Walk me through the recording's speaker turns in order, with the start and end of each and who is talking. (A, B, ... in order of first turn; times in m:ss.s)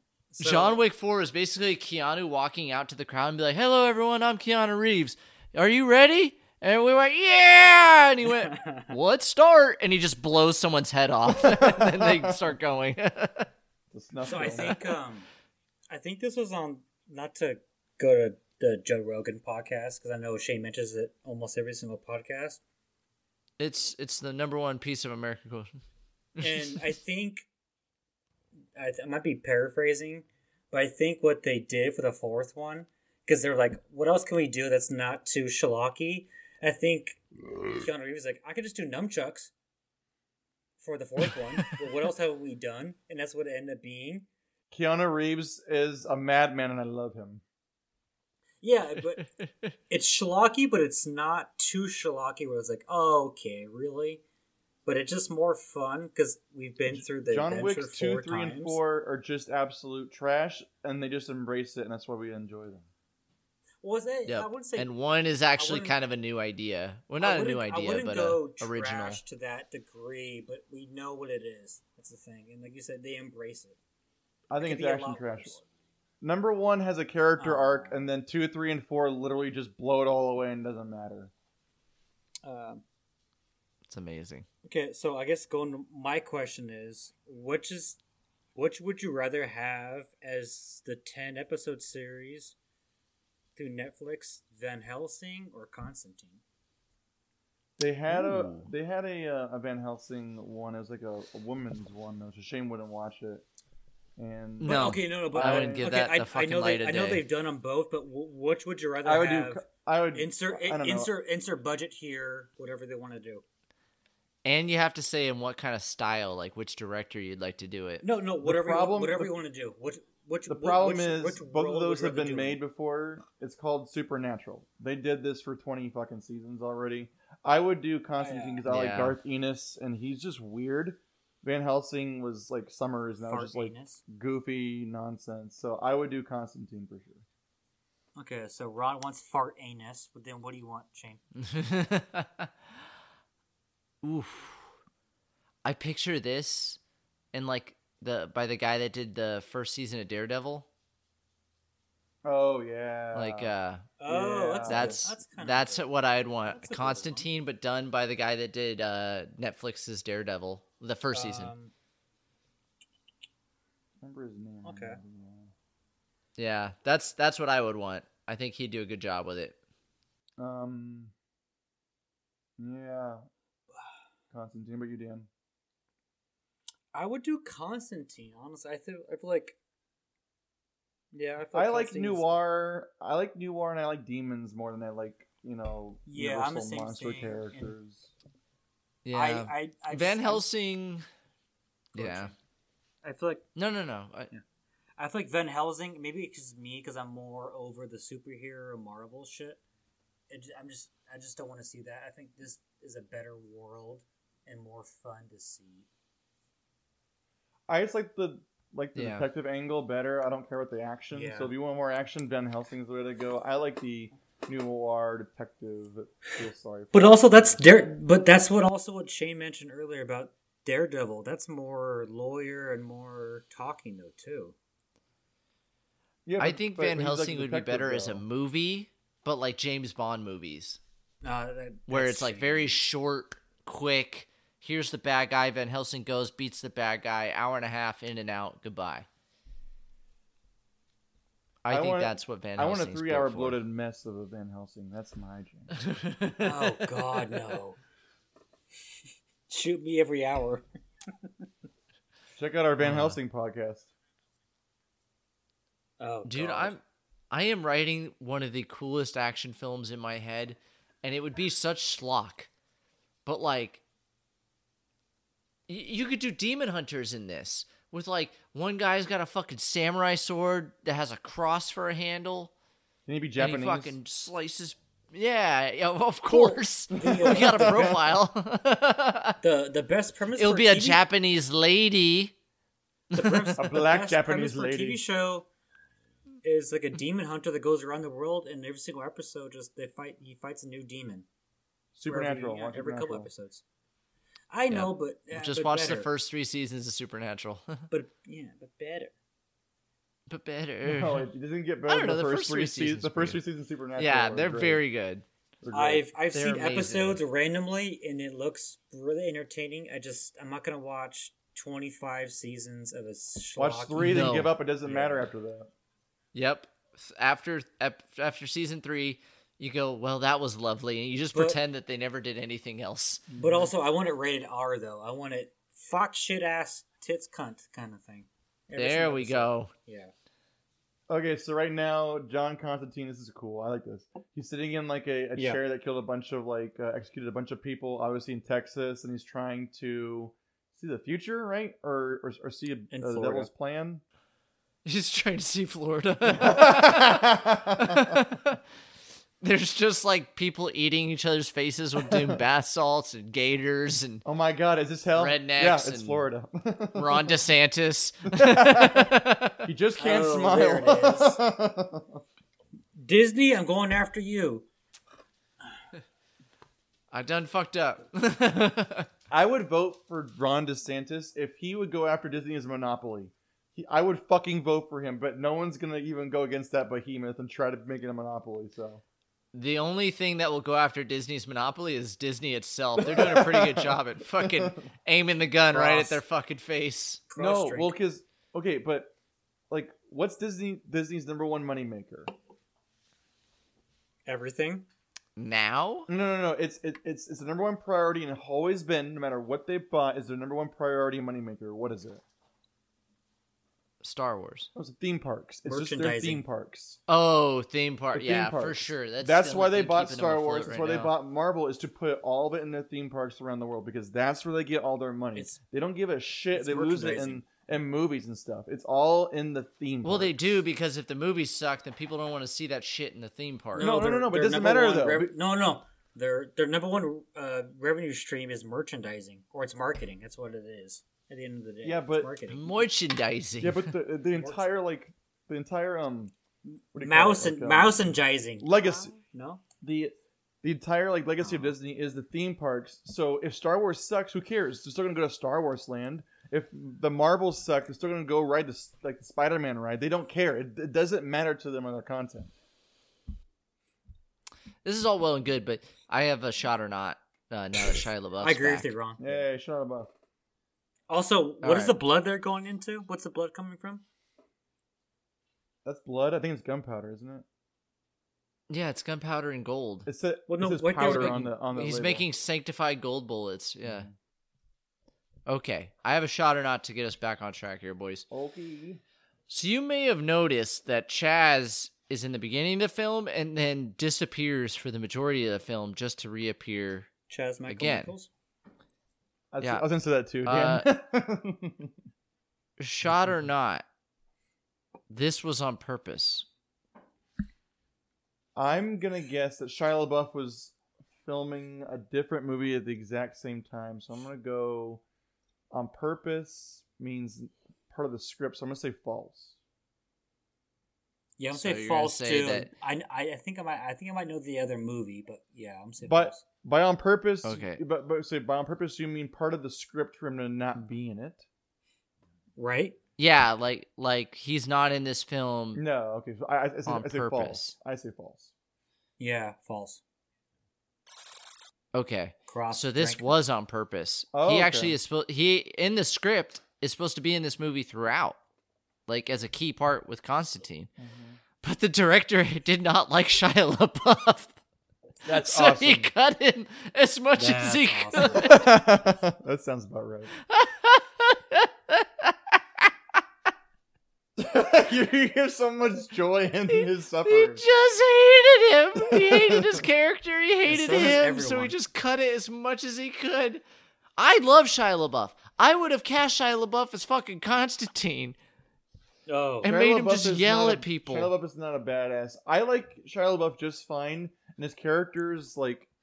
0:00.3-0:00.8 A
0:00.4-0:13.5 B
0:08.2-0:09.0 A
0:11.4-0:12.4 C
0:13.9-0:14.8 C
0:14.2-0:15.3 A
0:15.9-0:22.6 A
0:23.6-0:25.7 B
0:26.4-0:26.8 B
0:26.4-0:27.5 A
0:28.8-0:39.5 A
0:40.8-0:44.3 A
0:44.7-0:47.4 C
0:48.6-0:49.3 A
0:49.4-0:49.7 B
0:49.9-0:54.2 A
0:54.8-0:58.8 A
0:56.9-1:02.9 C
1:03.8-1:04.9 A
1:04.3-1:09.2 B
1:05.6-1:06.0 A
1:07.2-1:13.8 A
1:14.5-1:15.6 C
1:14.6-1:15.6 A
1:16.2-1:21.3 C
1:17.4-1:18.0 A
1:22.4-1:22.8 A
1:23.9-1:24.5 B
1:24.6-1:28.0 A
1:28.6-1:32.6 A
1:33.6-1:36.4 A
1:37.8-1:43.4 C
1:38.1-1:38.7 B
1:44.2-1:45.9 C
1:44.6-1:47.2 B
1:44.6-1:53.4 A
1:49.0-1:51.1 C
1:54.4-1:58.0 B
1:58.0-2:02.6 A
1:58.4-1:59.3 C
2:00.5-2:17.2 C
2:08.2-2:08.7 A
2:08.7-2:09.2 B
2:13.2-2:14.0 A
2:18.2-2:21.2 A
2:21.4-2:22.5 B
2:24.0-2:24.7 B
2:25.6-2:26.8 B
2:27.3-2:30.7 B
2:32.2-2:33.5 C
2:33.1-2:33.9 B
2:34.0-2:35.9 A
2:34.1-2:35.0 C
2:34.6-2:41.5 B
2:36.5-2:37.3 A
2:41.1-2:41.7 A
2:44.0-2:45.5 C
2:44.6-2:45.0 A
2:46.4-2:49.6 B
2:50.4-2:51.1 C
2:52.6-2:53.3 C
2:54.3-2:55.3 C
2:56.9-2:59.6 A
3:01.1-3:02.3 A
3:01.5-3:08.1 C
3:06.1-3:07.7 A
3:09.0-3:11.0 B
3:09.1-3:10.4 A
3:11.9-3:12.3 B
3:12.0-3:12.4 A
3:13.0-3:13.4 A
3:13.6-3:14.3 B
3:15.0-3:19.6 A
3:20.3-3:25.9 A
3:27.7-3:37.6 C
3:29.0-3:29.3 B
3:31.1-3:31.5 A
3:36.9-3:44.6 A
3:46.3-3:48.2 C
3:46.4-3:50.8 B
3:51.2-3:52.8 A
3:51.9-3:59.1 B
4:01.6-4:03.6 B
4:01.7-4:05.8 C
4:05.7-4:07.4 B
4:06.4-4:07.8 A
4:09.5-4:10.6 A
4:12.4-4:13.9 C
4:12.8-4:13.2 B
4:16.0-4:16.8 A
4:16.2-4:22.5 B
4:23.2-4:23.8 B
4:25.7-4:32.5 B
4:33.1-4:34.0 C
4:33.4-4:39.4 B
4:36.3-4:38.0 A
4:36.9-4:38.2 C
4:39.4-4:41.0 A
4:40.4-4:42.3 B
4:43.1-4:43.6 B
4:43.1-4:45.5 A
4:43.6-4:45.0 C
4:46.4-4:51.3 A
4:52.0-4:53.3 C
4:52.1-4:53.6 A
4:54.5-4:56.1 A
4:54.7-4:57.8 B
4:57.9-4:59.1 A
5:00.3-5:01.3 B
5:00.8-5:04.8 C
5:01.9-5:03.4 B
5:04.0-5:05.2 B
5:05.6-5:06.1 C
5:05.7-5:15.3 A
5:06.3-5:07.2 B
5:13.6-5:15.7 C
5:14.0-5:14.5 B
5:16.3-5:23.2 B
5:21.3-5:21.6 A
5:23.3-5:23.7 C
5:23.4-5:30.1 A
5:28.8-5:29.7 B
5:31.1-5:44.0 C
5:42.9-5:43.5 A
5:44.8-5:48.6 B
5:46.2-5:48.2 C
5:49.4-5:54.2 B
5:52.0-5:52.4 C
5:54.2-5:57.4 C
5:55.2-5:56.2 B
5:57.0-5:59.7 B
5:58.3-6:02.2 C
6:00.0-6:01.4 A
6:03.0-6:04.7 A
6:07.1-6:09.1 B
6:09.3-6:19.0 C
6:19.5-6:27.2 B
6:23.0-6:24.8 C
6:25.7-6:26.2 A
6:27.3-6:27.9 A
6:27.4-6:29.1 C
6:29.7-6:32.3 C
6:34.2-6:34.9 A
6:35.4-6:36.1 B
6:36.1-6:42.2 C
6:44.0-6:44.7 B
6:44.8-6:47.0 C
6:45.7-6:46.4 A
6:47.1-6:51.1 B
6:48.1-7:00.4 C
6:56.5-6:57.4 A
7:00.0-7:03.9 B
7:03.8-7:12.8 A
7:03.8-7:05.3 C
7:11.8-7:12.3 C
7:12.5-7:13.9 B
7:13.6-7:16.3 C
7:14.4-7:14.6 A
7:16.7-7:19.6 A
7:16.9-7:19.1 C
7:19.8-7:32.5 C
7:21.4-7:21.7 A
7:34.8-7:38.9 B
7:38.4-7:39.4 A
7:39.2-7:40.1 C
7:41.1-7:44.0 A
7:41.6-7:42.0 B
7:45.8-7:47.4 C
7:48.7-7:50.1 B
7:50.1-7:52.3 C
7:50.5-7:51.4 A
7:51.0-7:54.1 B
7:53.8-7:54.1 C
7:55.5-7:58.3 B
7:58.3-7:59.0 C
7:59.5-8:07.1 B
8:07.3-8:08.3 A
8:07.7-8:08.1 B
8:09.5-8:11.9 C
8:10.4-8:10.9 B
8:12.8-8:13.8 B
8:15.1-8:16.5 B
8:18.6-8:25.0 C
8:25.7-8:29.6 C
8:31.4-8:36.4 A
8:31.5-8:32.7 B
8:36.0-8:41.4 C
8:37.4-8:37.8 B
8:42.6-8:43.0 A
8:43.2-8:45.8 B
8:45.8-8:48.5 C
8:46.9-8:47.8 B
8:49.2-8:50.0 A
8:51.9-8:58.4 B
8:52.5-8:53.3 A
8:54.3-8:55.0 C
8:59.1-9:00.9 B
9:01.0-9:01.4 C
9:01.6-9:04.5 B
9:05.2-9:06.1 C
9:05.2-9:08.6 B
9:07.4-9:08.7 A
9:08.4-9:10.3 C
9:10.4-9:12.9 B
9:14.4-9:17.6 C
9:16.7-9:23.6 B
9:19.0-9:19.8 C
9:20.7-9:21.8 A
9:24.2-9:28.4 B
9:29.3-9:29.7 A
9:29.6-9:31.3 B
9:29.6-9:35.9 C